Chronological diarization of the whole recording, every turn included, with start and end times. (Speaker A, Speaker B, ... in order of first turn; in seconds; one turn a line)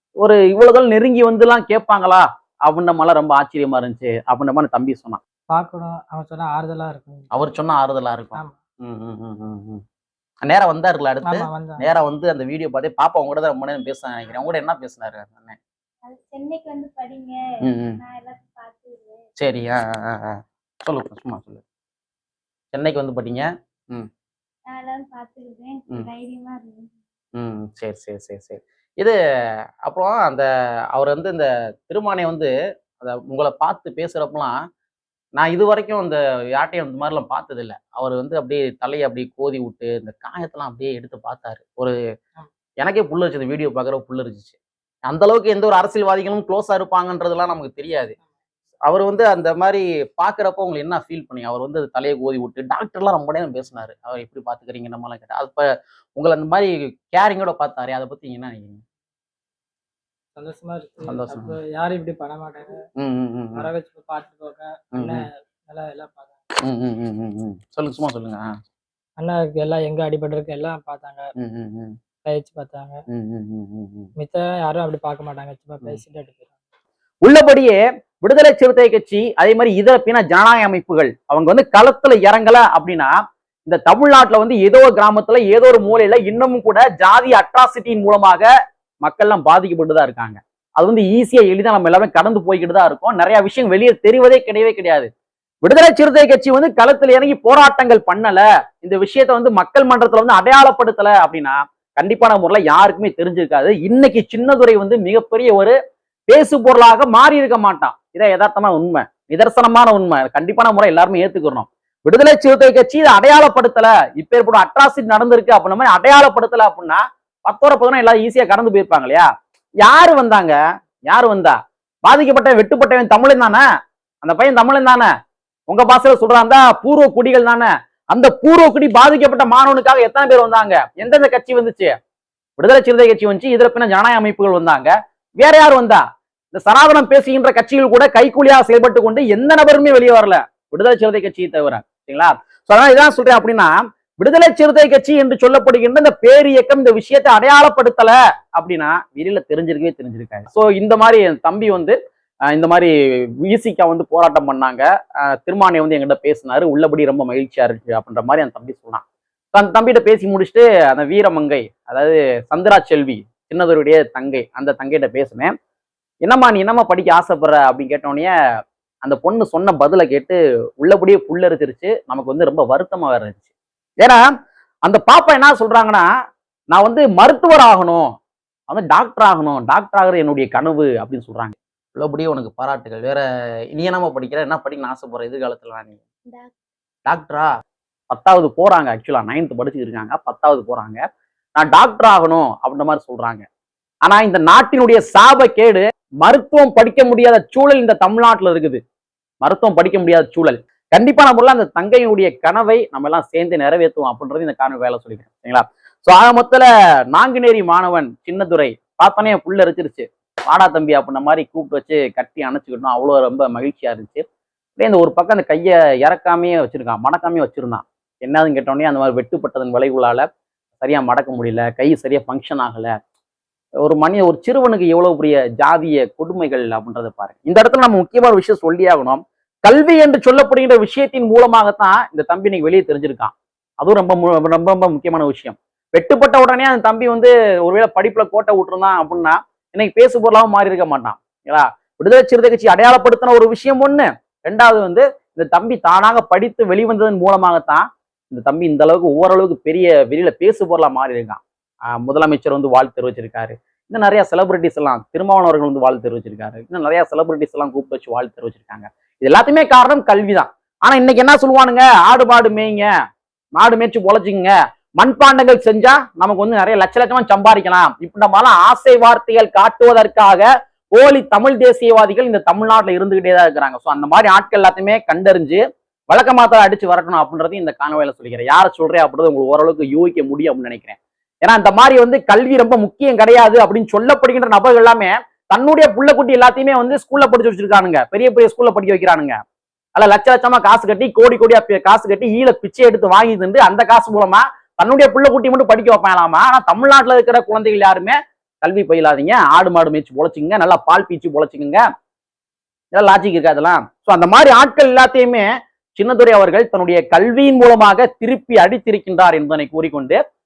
Speaker A: 0.2-5.2
Speaker B: 5.5-7.3
Speaker A: 7.3-9.8
Speaker A: 10.4-15.6
Speaker B: 11.2-11.8
Speaker C: 16.0-19.2
Speaker A: 17.6-18.0
Speaker A: 19.4-21.6
Speaker A: 22.7-24.1
Speaker C: 24.7-26.9
Speaker A: 27.4-29.1
Speaker A: 29.8-34.5
Speaker A: 35.4-41.9
Speaker A: 42.8-44.6
Speaker A: 45.1-48.1
Speaker A: 48.9-55.6
Speaker A: 56.1-58.8
Speaker B: 60.4-62.8
Speaker A: 61.1-61.5
Speaker A: 63.0-63.7
Speaker B: 63.5-66.3
Speaker A: 66.6-68.5
Speaker B: 69.2-71.2
Speaker A: 71.4-71.9
Speaker B: 72.2-73.0
Speaker A: 73.1-74.1
Speaker B: 74.2-76.5
Speaker A: 77.2-83.1
Speaker A: 83.7-88.5
Speaker A: 89.0-95.1
Speaker A: 95.6-105.7
Speaker A: 106.3-119.3
Speaker A: 119.8-120.5
Speaker A: 121.1-123.6
Speaker A: 124.2-125.1
Speaker A: 125.7-131.9
Speaker A: 132.6-136.0
Speaker A: 136.5-151.9
Speaker A: 152.5-152.9
Speaker A: 153.5-159.0
Speaker A: 159.5-165.5
Speaker A: 166.2-168.3
Speaker A: 169.0-173.4
Speaker A: 174.8-176.1
Speaker A: 176.7-178.0
Speaker A: 178.7-183.2
Speaker A: 183.7-186.0
Speaker A: 187.1-187.5
Speaker A: 188.1-191.0
Speaker A: 191.6-193.4
Speaker A: 194.0-198.8
Speaker A: 199.4-214.2
Speaker A: 214.8-220.2
Speaker A: 220.8-222.9
Speaker A: 223.8-251.4
Speaker A: 252.0-262.9
Speaker A: 263.6-289.3
Speaker A: 289.9-301.8
Speaker A: 302.9-305.4
Speaker A: 306.0-310.2